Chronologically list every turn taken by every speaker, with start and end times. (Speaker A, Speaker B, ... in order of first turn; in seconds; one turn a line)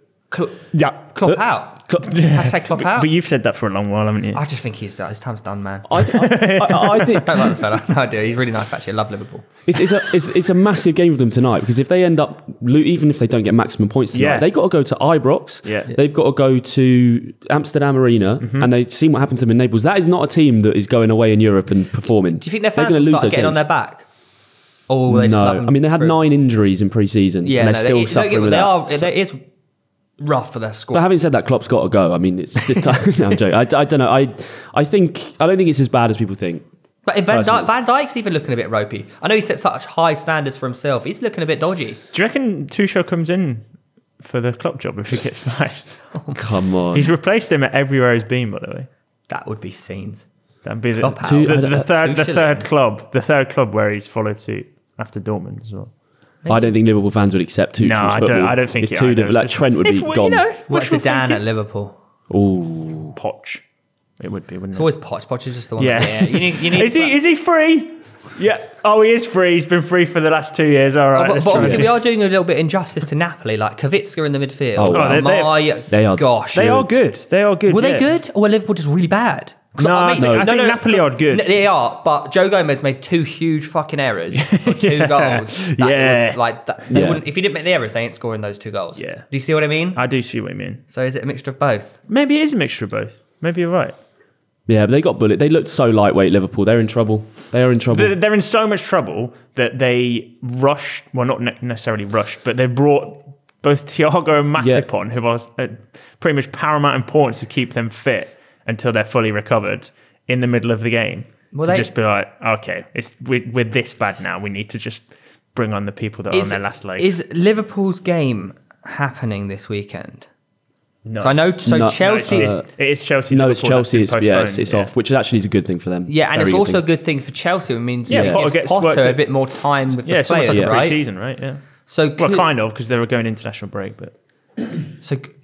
Speaker A: 0.3-3.1
Speaker B: 0.7-1.1
Speaker C: 1.2-2.1
Speaker B: 2.0-4.4
Speaker A: 4.3-6.4
Speaker C: 5.8-7.3
Speaker B: 6.2-7.5
Speaker A: 7.0-9.8
Speaker C: 9.7-23.6
Speaker B: 14.1-14.5
Speaker B: 15.6-15.9
Speaker B: 18.4-18.7
Speaker A: 22.4-24.1
Speaker A: 24.9-26.2
Speaker C: 25.1-29.1
Speaker A: 27.4-29.4
Speaker A: 30.2-31.1
Speaker C: 30.9-36.6
Speaker A: 32.5-32.9
Speaker A: 37.0-42.0
Speaker C: 37.3-37.7
Speaker B: 42.1-43.7
Speaker B: 44.2-46.1
Speaker A: 46.1-46.5
Speaker C: 46.3-47.1
Speaker B: 46.9-48.9
Speaker A: 49.3-50.3
Speaker B: 50.6-56.0
Speaker A: 50.9-52.7
Speaker C: 51.2-51.9
Speaker A: 56.4-56.8
Speaker C: 56.5-60.5
Speaker B: 57.8-61.4
Speaker A: 60.7-61.9
Speaker C: 62.3-63.1
Speaker B: 63.1-63.6
Speaker B: 64.2-65.1
Speaker A: 64.7-67.2
Speaker B: 65.8-72.0
Speaker A: 71.1-76.7
Speaker C: 71.5-71.8
Speaker C: 74.8-75.2
Speaker B: 74.9-75.8
Speaker C: 75.8-77.0
Speaker B: 76.5-78.1
Speaker A: 77.7-90.0
Speaker B: 79.8-81.6
Speaker C: 80.2-80.5
Speaker B: 84.3-86.4
Speaker C: 86.9-87.2
Speaker B: 89.0-89.3
Speaker B: 89.9-90.8
Speaker A: 90.9-92.0
Speaker B: 92.1-94.0
Speaker C: 94.7-98.1
Speaker B: 97.9-117.1
Speaker C: 104.5-104.8
Speaker A: 111.5-111.9
Speaker A: 116.3-120.3
Speaker B: 121.0-124.9
Speaker A: 121.2-122.5
Speaker C: 121.6-126.8
Speaker A: 126.0-131.1
Speaker C: 128.1-128.4
Speaker B: 128.1-134.1
Speaker C: 130.5-130.8
Speaker A: 131.8-132.5
Speaker A: 135.0-135.3